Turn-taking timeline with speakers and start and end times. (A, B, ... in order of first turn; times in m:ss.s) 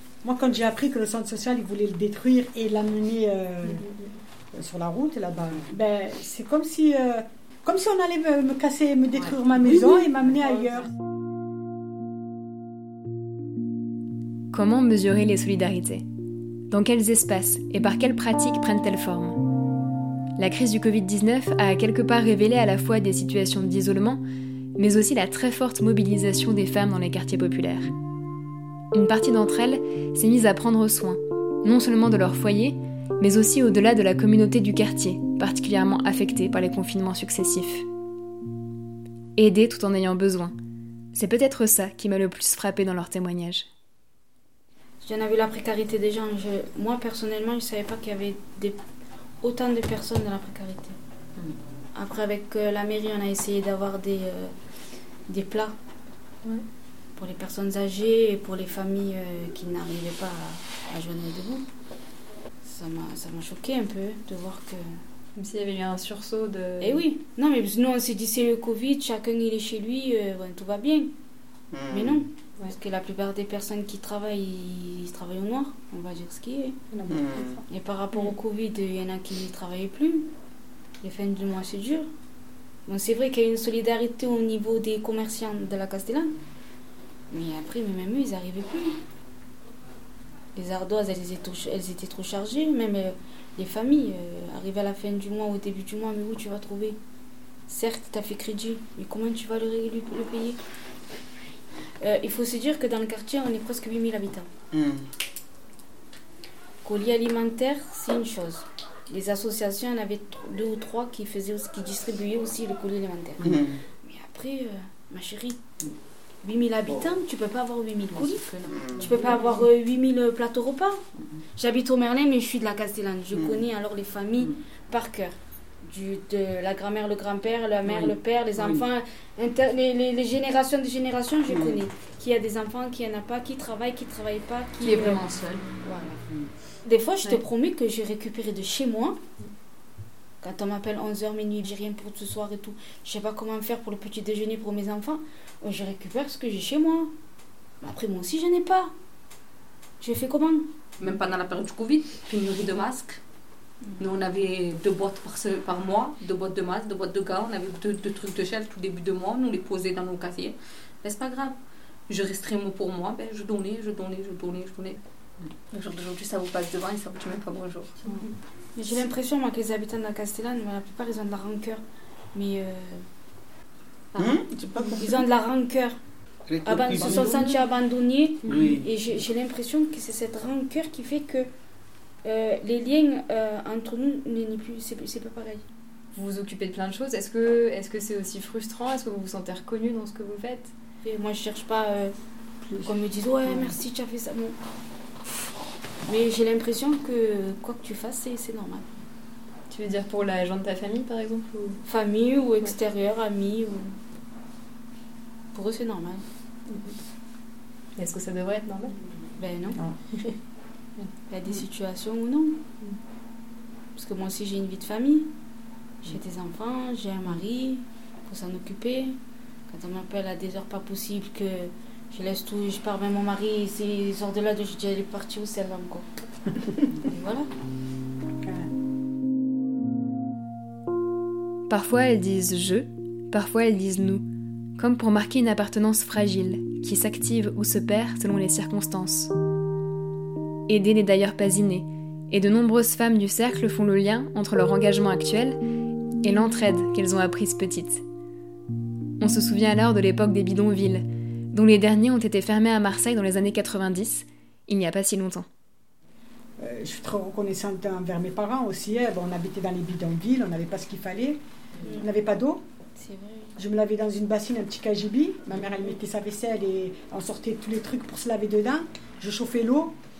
0:00.2-0:03.8 A
0:04.5-0:10.9 A
0:09.7-0:10.0 B
0:14.5-0:16.0 C
0:16.7-0:19.4 C
0:20.4-0:24.2 C
0:24.8-0:27.9 C
0:28.9-0:37.8 C
0:39.4-0:40.5 C
0:41.1-0:43.7 C
0:45.0-0:48.8 D
0:49.4-0:51.0 D
0:51.9-0:54.5 D
0:55.3-0:55.7 D
0:57.2-1:01.6 D
1:02.6-1:05.0 D
1:05.3-1:07.0 C
1:06.8-1:11.1 D
1:11.7-1:12.2 B
1:11.9-1:16.8 D
1:17.1-1:17.6 B
1:17.7-1:20.3 D
1:21.0-1:22.1 D
1:22.9-1:26.3 D
1:27.3-1:29.0 D
1:30.5-1:37.0 D
1:37.7-1:40.6 D
1:42.0-1:44.5 D
1:44.7-1:45.0 B
1:46.8-1:55.6 D
1:53.4-1:53.8 B
1:56.4-2:01.0 D
1:58.6-1:59.1 B
2:01.6-2:15.2 D
2:03.3-2:03.6 B
2:11.5-2:11.8 B
2:14.8-2:15.6 E
2:15.8-2:16.2 D
2:16.8-2:19.2 D
2:20.4-2:27.1 D
2:27.8-2:28.9 D
2:30.0-2:30.6 D
2:31.0-2:33.2 E
2:33.8-2:34.1 D
2:34.0-2:41.5 E
2:42.1-2:45.0 E
2:45.7-2:47.9 E
2:48.8-2:51.8 D
2:52.3-2:53.0 D
2:54.2-2:55.2 B
2:54.9-2:56.0 D
2:56.5-2:57.6 B
2:56.6-3:01.5 D
2:58.4-2:58.9 B
3:02.2-3:05.6 D
3:06.1-3:10.7 C
3:11.0-3:12.1 D
3:12.8-3:14.5 D
3:16.0-3:19.0 D
3:19.7-3:21.8 C
3:21.8-3:23.9 D
3:25.5-3:26.2 D
3:28.0-3:28.9 C
3:29.4-3:29.8 D
3:31.3-3:32.6 D
3:33.9-3:35.3 D
3:36.0-3:39.1 D
3:39.7-3:46.0 D
3:47.0-3:47.5 D
3:51.7-3:54.2 C
3:54.8-3:59.3 C
4:00.7-4:05.6 C
4:06.2-4:08.0 C
4:09.2-4:15.4 C
4:16.6-4:22.6 A
4:21.8-4:22.1 D
4:23.0-4:23.6 D
4:23.6-4:29.9 A